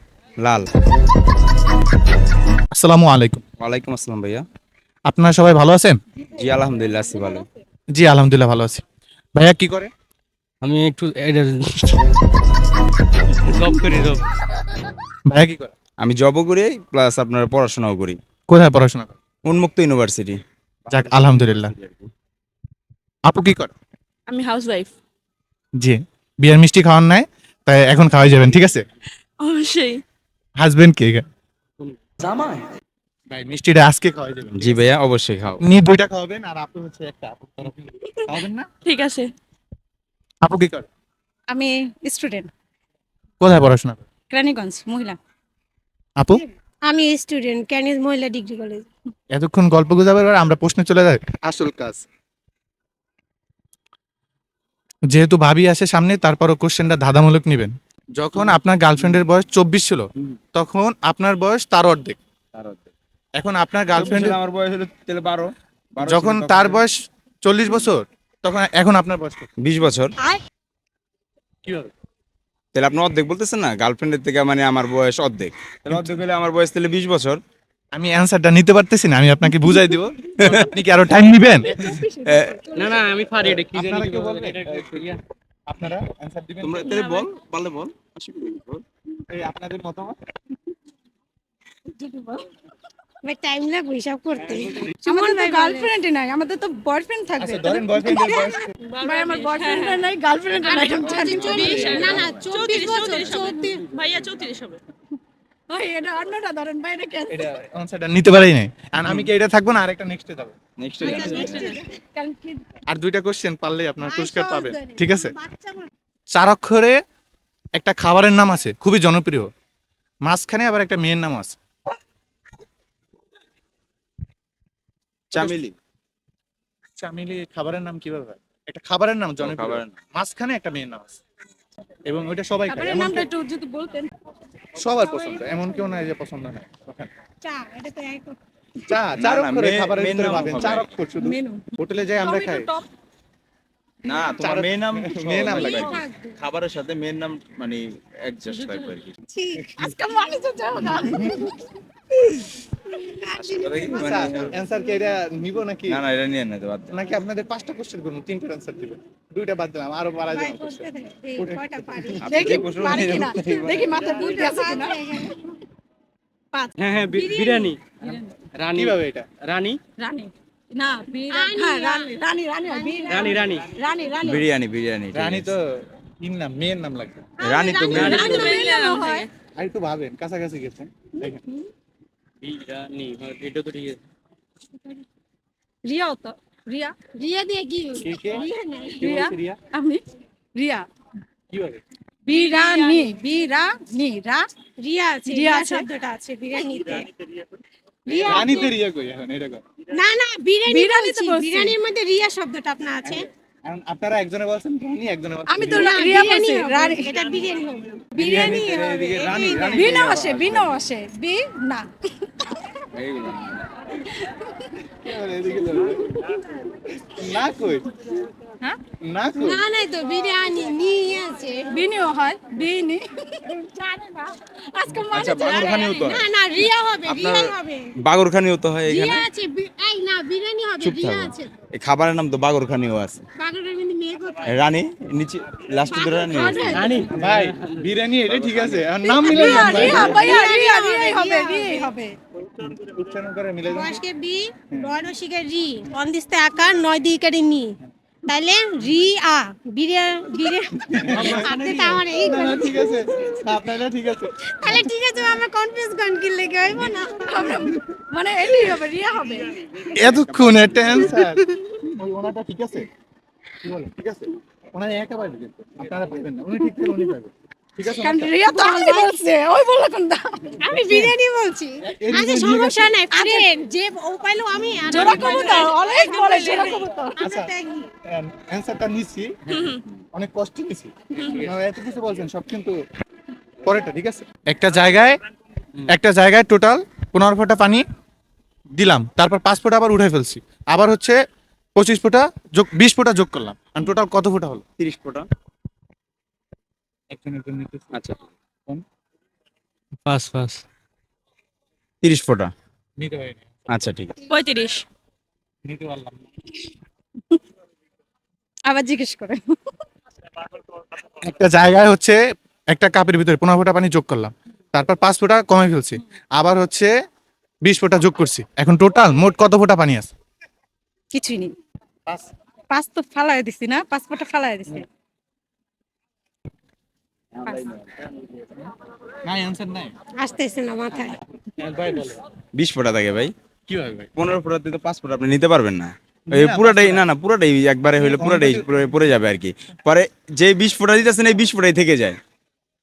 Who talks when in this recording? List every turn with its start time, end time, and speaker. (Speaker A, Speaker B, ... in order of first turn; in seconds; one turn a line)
Speaker A: 0.4-0.7
Speaker B: 2.7-3.4
Speaker A: 3.6-4.4
Speaker B: 5.1-6.0
Speaker A: 6.4-7.5
Speaker B: 7.9-8.8
Speaker B: 9.3-9.9
Speaker C: 10.6-12.0
Speaker C: 13.4-14.2
Speaker B: 15.3-15.7
Speaker A: 16.0-18.2
Speaker B: 18.5-19.1
Speaker A: 19.4-22.1
Speaker B: 20.9-21.7
Speaker B: 23.2-23.7
Speaker D: 24.3-24.9
Speaker B: 25.8-28.8
Speaker D: 29.4-29.9
Speaker B: 30.6-31.2
Speaker B: 33.3-34.8
Speaker A: 34.5-35.6
Speaker B: 35.6-38.7
Speaker D: 38.9-39.2
Speaker B: 40.4-40.9
Speaker E: 41.5-42.5
Speaker B: 43.4-44.0
Speaker E: 44.3-45.2
Speaker B: 46.2-46.4
Speaker F: 46.8-48.9
Speaker B: 49.3-52.0
Speaker B: 55.1-62.2
Speaker A: 62.5-62.9
Speaker B: 63.4-64.4
Speaker A: 63.9-66.8
Speaker B: 66.0-69.5
Speaker A: 69.6-70.1
Speaker B: 71.7-71.9
Speaker A: 72.7-77.4
Speaker B: 75.9-76.2
Speaker B: 77.9-81.7
Speaker E: 81.4-83.0
Speaker A: 82.2-82.6
Speaker C: 82.7-85.2
Speaker B: 83.4-84.6
Speaker B: 85.7-86.9
Speaker A: 86.6-88.8
Speaker B: 89.3-90.2
Speaker E: 91.9-92.4
Speaker F: 93.2-95.9
Speaker E: 95.0-101.5
Speaker B: 97.4-98.7
Speaker D: 98.9-99.9
Speaker F: 100.8-103.8
Speaker B: 101.1-102.5
Speaker D: 101.5-104.7
Speaker E: 103.4-103.7
Speaker E: 105.7-107.5
Speaker B: 107.3-110.5
Speaker A: 109.0-109.3
Speaker A: 110.8-111.8
Speaker F: 111.0-111.9
Speaker E: 111.0-112.6
Speaker D: 111.2-111.7
Speaker B: 112.9-115.3
Speaker F: 114.0-115.9
Speaker B: 116.3-117.0
Speaker B: 117.8-119.5
Speaker B: 120.2-121.6
Speaker A: 125.3-125.8
Speaker B: 127.0-131.2
Speaker A: 129.4-130.0
Speaker B: 132.1-133.3
Speaker E: 132.7-134.1
Speaker B: 134.8-137.1
Speaker E: 135.0-135.8
Speaker F: 137.4-138.4
Speaker B: 138.9-142.7
Speaker A: 139.2-140.9
Speaker E: 141.2-141.6
Speaker E: 142.2-142.9
Speaker A: 144.0-149.1
Speaker B: 144.4-145.9
Speaker F: 145.4-146.3
Speaker F: 149.3-149.8
Speaker E: 149.8-151.6
Speaker B: 151.1-151.4
Speaker F: 153.0-154.5
Speaker A: 153.4-154.5
Speaker B: 153.9-156.0
Speaker A: 155.9-156.9
Speaker B: 156.9-161.6
Speaker F: 160.3-165.4
Speaker A: 162.2-163.8
Speaker E: 162.3-165.3
Speaker C: 166.8-167.8
Speaker F: 167.1-167.7
Speaker E: 168.0-168.3
Speaker C: 168.6-169.8
Speaker B: 168.7-169.2
Speaker E: 170.0-174.4
Speaker F: 171.3-173.6
Speaker C: 173.1-173.7
Speaker A: 174.2-175.5
Speaker B: 175.1-177.2
Speaker F: 177.4-179.2
Speaker A: 177.4-178.6
Speaker D: 177.9-179.2
Speaker E: 178.0-179.2
Speaker B: 179.6-181.4
Speaker C: 182.4-184.0
Speaker E: 185.8-187.0
Speaker F: 187.1-189.2
Speaker B: 188.0-188.5
Speaker B: 189.0-189.6
Speaker E: 189.0-190.0
Speaker E: 190.6-190.9
Speaker B: 191.5-191.8
Speaker E: 192.2-194.5
Speaker F: 192.3-193.0
Speaker F: 194.8-197.1
Speaker E: 195.3-195.9
Speaker E: 198.1-198.7
Speaker F: 198.1-198.4
Speaker B: 198.2-199.6
Speaker F: 199.9-203.3
Speaker E: 200.7-201.8
Speaker B: 203.1-205.9
Speaker E: 205.5-207.1
Speaker F: 205.6-208.4
Speaker B: 208.2-210.7
Speaker A: 208.2-210.5
Speaker E: 208.2-209.1
Speaker F: 209.2-209.9
Speaker E: 209.7-211.9
Speaker A: 212.9-213.6
Speaker B: 214.9-216.2
Speaker B: 217.1-217.9
Speaker B: 219.0-219.6
Speaker F: 219.3-221.7
Speaker E: 221.7-226.1
Speaker A: 225.1-226.3
Speaker F: 225.4-227.9
Speaker A: 227.1-229.2
Speaker F: 228.8-231.5
Speaker A: 230.8-233.2
Speaker F: 233.3-234.7
Speaker A: 234.4-236.9
Speaker F: 235.9-237.0
Speaker E: 236.4-236.8
Speaker C: 236.7-237.8
Speaker B: 237.1-240.2
Speaker A: 238.3-238.9
Speaker E: 239.1-242.2
Speaker F: 239.2-241.9
Speaker A: 239.8-240.1
Speaker B: 242.6-244.0
Speaker F: 243.7-253.3
Speaker B: 250.9-251.4
Speaker C: 251.1-252.0
Speaker B: 252.2-254.9
Speaker F: 254.4-257.7
Speaker E: 257.3-259.5
Speaker B: 259.9-262.9
Speaker A: 260.1-261.1
Speaker B: 263.6-268.3
Speaker E: 266.7-267.0
Speaker E: 267.8-270.5
Speaker F: 268.4-269.1
Speaker F: 270.6-277.9
Speaker B: 270.9-271.1
Speaker B: 271.8-273.0
Speaker E: 273.1-273.4
Speaker E: 274.9-277.2
Speaker B: 274.9-275.4
Speaker B: 277.2-277.5
Speaker B: 278.1-279.4
Speaker B: 280.1-282.8
Speaker B: 283.6-285.2
Speaker B: 285.9-287.8
Speaker B: 288.7-291.2
Speaker B: 291.8-294.6
Speaker A: 294.8-295.3
Speaker B: 297.1-298.0
Speaker A: 297.9-298.2
Speaker C: 300.1-300.6
Speaker A: 302.0-302.5
Speaker B: 303.0-303.6
Speaker A: 303.7-304.1
Speaker D: 304.3-304.8
Speaker B: 305.6-306.3
Speaker E: 308.7-309.4
Speaker B: 311.2-316.9
Speaker B: 317.6-320.1
Speaker E: 321.1-321.5
Speaker E: 322.7-324.8
Speaker E: 327.4-327.7
Speaker A: 327.4-327.8
Speaker B: 329.2-329.9
Speaker F: 330.2-331.2
Speaker B: 331.6-332.2
Speaker A: 332.5-333.3
Speaker B: 333.7-334.1
Speaker A: 334.1-342.2
Speaker B: 336.3-337.0
Speaker B: 338.0-339.0